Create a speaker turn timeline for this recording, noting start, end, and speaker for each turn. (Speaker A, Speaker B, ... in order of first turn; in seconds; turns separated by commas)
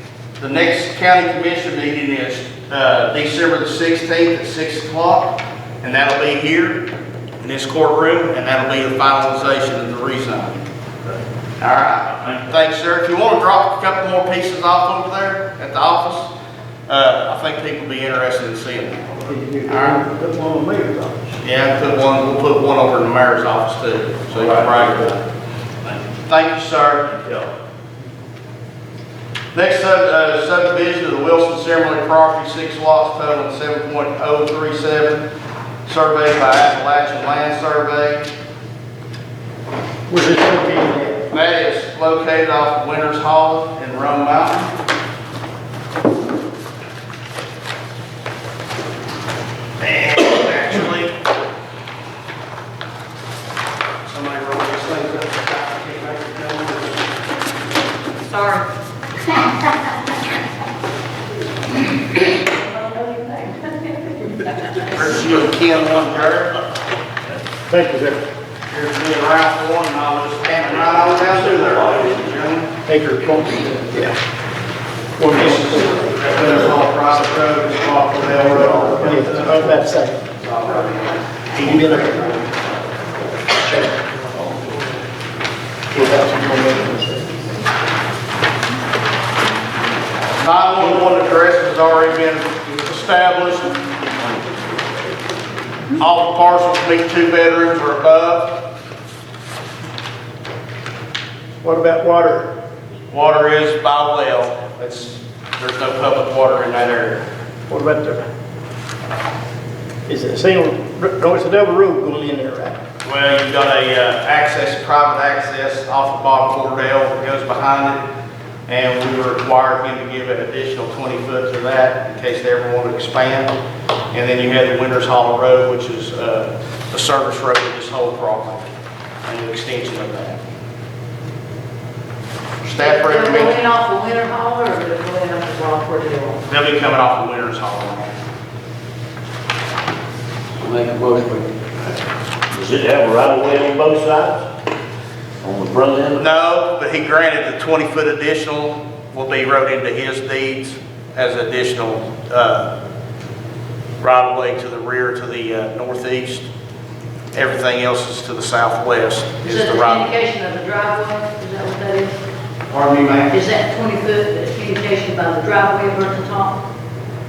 Speaker A: 0.4-6.9, Speaker A: 7.4-10.6, Speaker A: 11.6-16.3, Speaker A: 16.9-20.0, Speaker B: 19.3-21.3, Speaker A: 21.4-25.2, Speaker A: 26.0-27.3, Speaker A: 29.5-35.3, Speaker A: 35.9-38.3, Speaker B: 40.1-41.2, Speaker A: 41.3-44.7, Speaker A: 49.8-51.1, Speaker A: 54.1-57.0, Speaker C: 58.2-58.6, Speaker C: 62.3-64.8, Speaker A: 64.9-66.5, Speaker B: 67.7-68.2, Speaker A: 68.7-72.7, Speaker B: 72.8-74.1, Speaker B: 75.2-76.1, Speaker A: 75.3-79.7, Speaker B: 78.6-80.2, Speaker A: 80.3-82.4, Speaker B: 81.6-82.4, Speaker B: 83.6-83.9, Speaker B: 85.9-87.4, Speaker A: 90.4-93.8, Speaker A: 96.0-98.6, Speaker B: 101.6-102.5, Speaker A: 103.1-107.2, Speaker B: 107.7-108.3, Speaker B: 110.1-112.8, Speaker A: 113.0-118.0, Speaker A: 118.7-123.5, Speaker A: 124.1-128.7, Speaker A: 129.2-130.4, Speaker A: 132.6-133.6, Speaker C: 132.8-136.4, Speaker A: 136.5-138.1, Speaker D: 140.6-141.6, Speaker D: 142.5-144.4, Speaker D: 145.4-146.2, Speaker A: 146.2-152.7, Speaker A: 154.0-156.5, Speaker A: 157.3-160.1, Speaker C: 159.4-162.2, Speaker A: 162.7-163.3, Speaker C: 163.3-166.6